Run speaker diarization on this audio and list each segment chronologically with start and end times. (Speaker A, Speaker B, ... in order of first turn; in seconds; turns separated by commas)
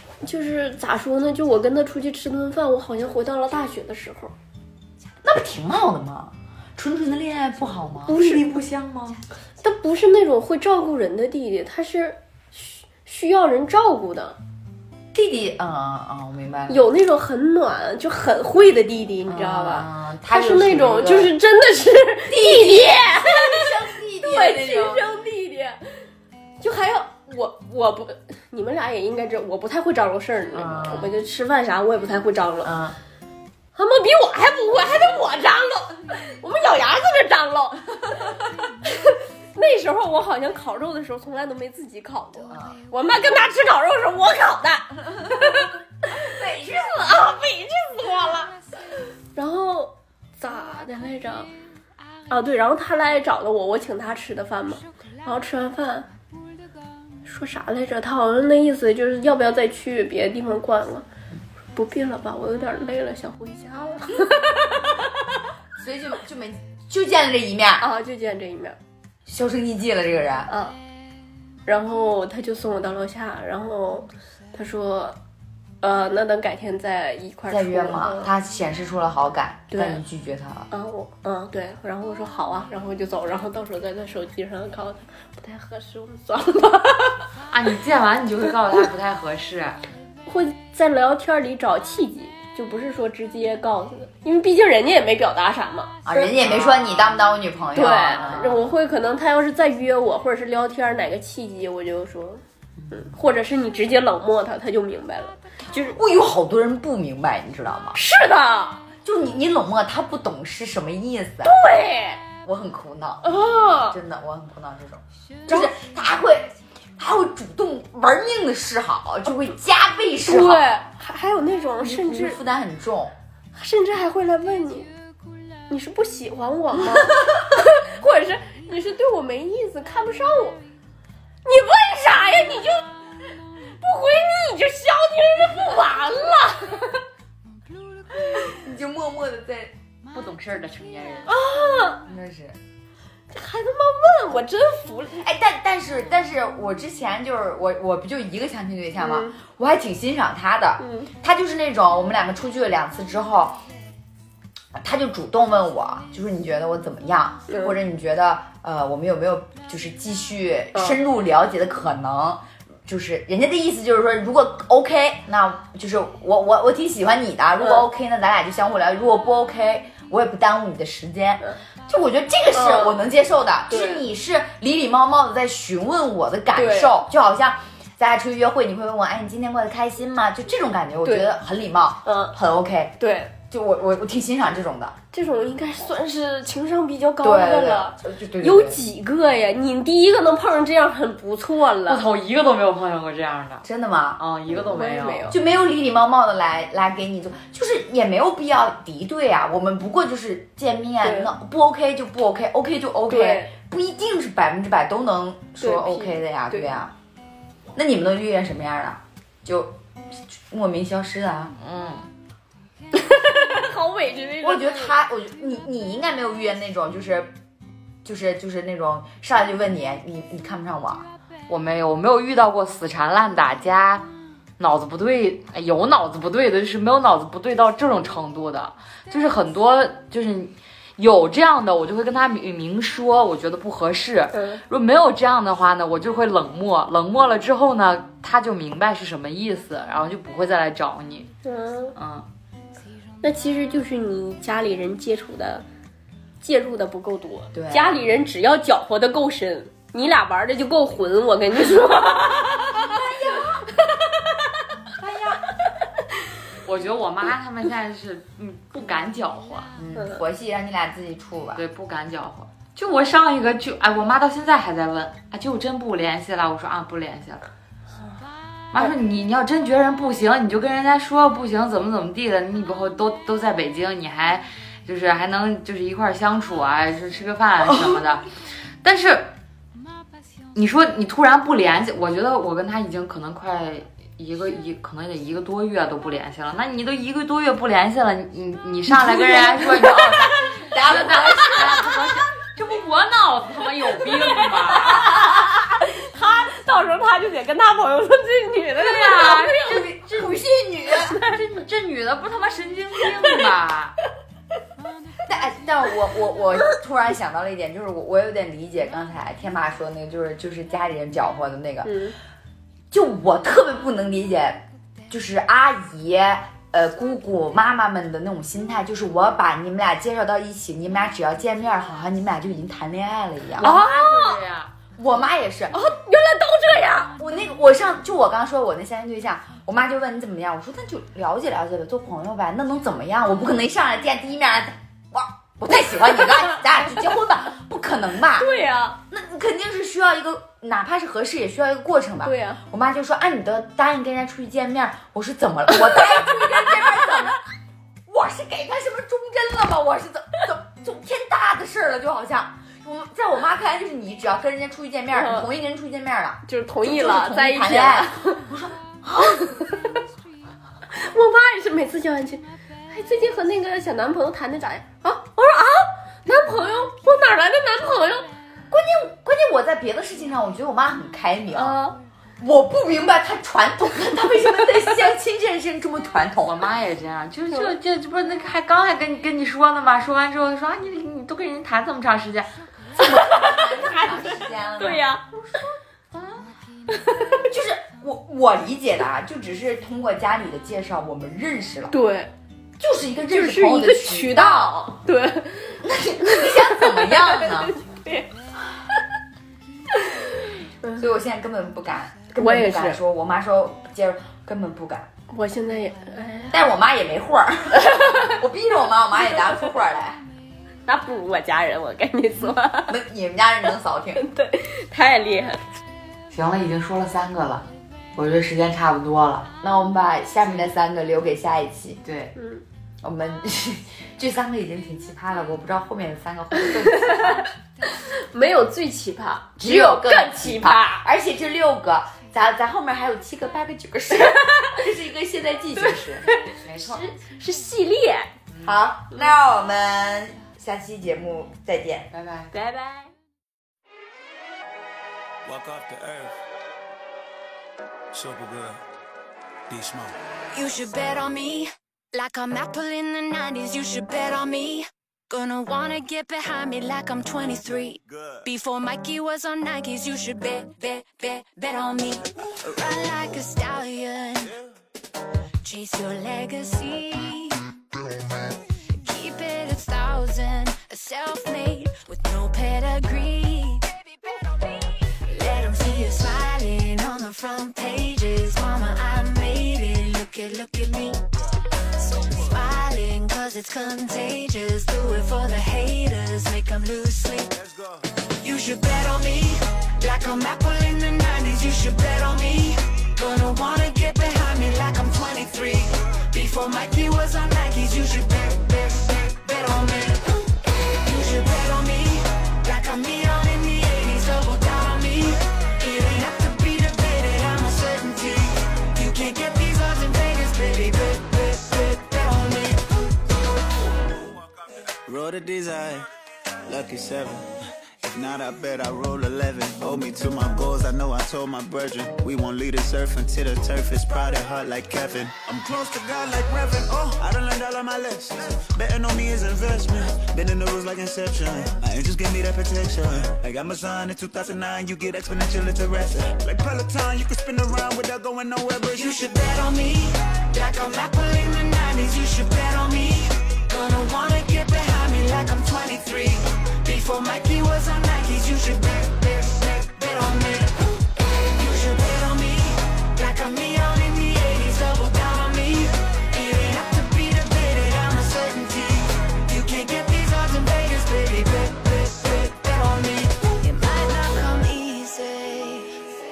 Speaker A: 0.2-4.3, Speaker B: 5.2-8.3, Speaker A: 8.1-8.4, Speaker C: 8.2-9.2, Speaker A: 9.6-14.4, Speaker B: 15.1-16.8, Speaker A: 16.7-26.0, Speaker B: 19.3-21.4, Speaker B: 22.3-25.1, Speaker A: 26.6-32.7, Speaker B: 30.5-31.1, Speaker B: 32.6-33.0, Speaker A: 33.8-48.5, Speaker B: 42.5-42.8, Speaker B: 46.2-47.2, Speaker A: 49.4-51.5, Speaker A: 52.3-56.1, Speaker A: 57.2-61.1, Speaker A: 61.7-65.1, Speaker B: 65.8-67.9, Speaker A: 67.8-68.8, Speaker B: 69.3-70.5, Speaker A: 70.5-70.8, Speaker A: 71.7-75.2, Speaker A: 75.8-78.3, Speaker B: 77.5-80.7, Speaker A: 79.7-80.0, Speaker A: 80.7-87.2, Speaker C: 87.5-89.8, Speaker A: 90.3-96.3, Speaker B: 96.1-98.7, Speaker C: 96.4-96.8, Speaker A: 97.7-105.9, Speaker B: 105.7-108.0, Speaker A: 107.9-108.8, Speaker B: 109.0-111.6, Speaker A: 111.4-112.2, Speaker B: 112.4-120.7, Speaker A: 113.2-114.0, Speaker A: 115.5-115.7, Speaker A: 120.2-122.4, Speaker B: 121.8-123.2, Speaker A: 123.5-124.9, Speaker A: 125.7-130.6, Speaker A: 131.4-133.0, Speaker A: 133.8-137.0, Speaker B: 138.2-139.7, Speaker C: 140.1-141.3, Speaker A: 141.3-142.0, Speaker B: 142.0-142.6, Speaker A: 143.3-145.3, Speaker B: 145.2-153.6, Speaker A: 149.0-149.4, Speaker A: 150.8-151.1, Speaker B: 154.7-184.9, Speaker A: 157.5-157.8, Speaker A: 160.7-161.0, Speaker A: 172.5-173.0, Speaker A: 173.7-174.1, Speaker A: 176.5-177.0, Speaker A: 181.0-181.3, Speaker A: 182.1-182.4, Speaker A: 183.0-183.3, Speaker A: 185.1-192.1, Speaker B: 187.2-188.8, Speaker C: 191.9-193.7, Speaker B: 193.6-194.2, Speaker C: 194.2-195.3, Speaker A: 194.5-195.4, Speaker B: 195.3-206.9, Speaker A: 201.0-201.3, Speaker A: 203.1-203.5, Speaker A: 205.6-206.7, Speaker B: 207.7-211.6, Speaker C: 211.6-212.1, Speaker A: 212.9-214.9, Speaker B: 214.4-217.3, Speaker B: 218.0-221.1, Speaker C: 221.5-224.1, Speaker C: 224.6-241.3, Speaker A: 234.3-234.6, Speaker A: 241.4-242.0, Speaker C: 242.0-242.3, Speaker A: 243.2-245.7, Speaker A: 246.4-254.6, Speaker B: 247.5-248.0, Speaker C: 255.0-255.4, Speaker C: 256.6-259.7, Speaker B: 259.8-261.6, Speaker A: 260.0-260.2, Speaker C: 261.6-267.5, Speaker C: 268.7-278.3, Speaker B: 277.7-278.0, Speaker C: 278.8-279.3, Speaker C: 280.6-295.3, Speaker B: 288.9-292.0, Speaker A: 294.3-299.9, Speaker C: 298.8-300.3, Speaker B: 299.6-301.2, Speaker C: 301.1-303.9, Speaker B: 305.3-312.0, Speaker A: 311.9-312.2, Speaker B: 312.9-323.8, Speaker C: 323.6-324.7, Speaker A: 323.6-324.4, Speaker B: 325.0-325.8, Speaker A: 325.7-327.2, Speaker B: 327.2-338.5, Speaker A: 338.3-339.0, Speaker B: 339.1-347.4, Speaker A: 342.2-342.6, Speaker B: 348.1-359.7, Speaker A: 355.1-355.5, Speaker A: 356.5-358.5, Speaker A: 359.2-359.8, Speaker A: 360.9-368.3, Speaker B: 368.7-371.8, Speaker A: 371.5-372.0, Speaker B: 372.4-376.7, Speaker C: 376.4-382.5, Speaker B: 383.0-385.1, Speaker A: 383.0-385.3, Speaker A: 386.9-387.4, Speaker B: 387.5-391.9, Speaker A: 391.9-392.3, Speaker B: 392.8-395.0, Speaker A: 393.3-398.3, Speaker B: 395.8-397.8, Speaker A: 399.9-401.1, Speaker B: 401.0-405.1, Speaker A: 402.4-403.0, Speaker A: 405.3-406.7, Speaker B: 406.5-410.2, Speaker A: 407.7-408.4, Speaker A: 409.3-409.6, Speaker A: 410.9-413.0, Speaker B: 412.9-414.3, Speaker A: 414.2-415.7, Speaker C: 416.3-419.5, Speaker B: 419.6-422.0, Speaker C: 422.0-422.3, Speaker A: 422.4-422.6, Speaker B: 423.0-427.5, Speaker A: 426.6-431.1, Speaker B: 429.6-437.0, Speaker A: 434.1-434.9, Speaker A: 435.8-438.3, Speaker B: 438.6-442.1, Speaker C: 442.1-442.5, Speaker A: 442.5-443.1, Speaker D: 445.4-446.4, Speaker D: 448.1-448.8, Speaker D: 449.7-450.2, Speaker E: 450.5-464.5, Speaker D: 458.1-458.5, Speaker E: 465.6-467.7, Speaker E: 469.0-481.2, Speaker E: 482.0-487.5, Speaker D: 487.5-488.0, Speaker E: 488.4-500.3, Speaker E: 500.9-512.9, Speaker D: 515.1-516.1, Speaker D: 516.7-539.2, Speaker E: 538.9-566.1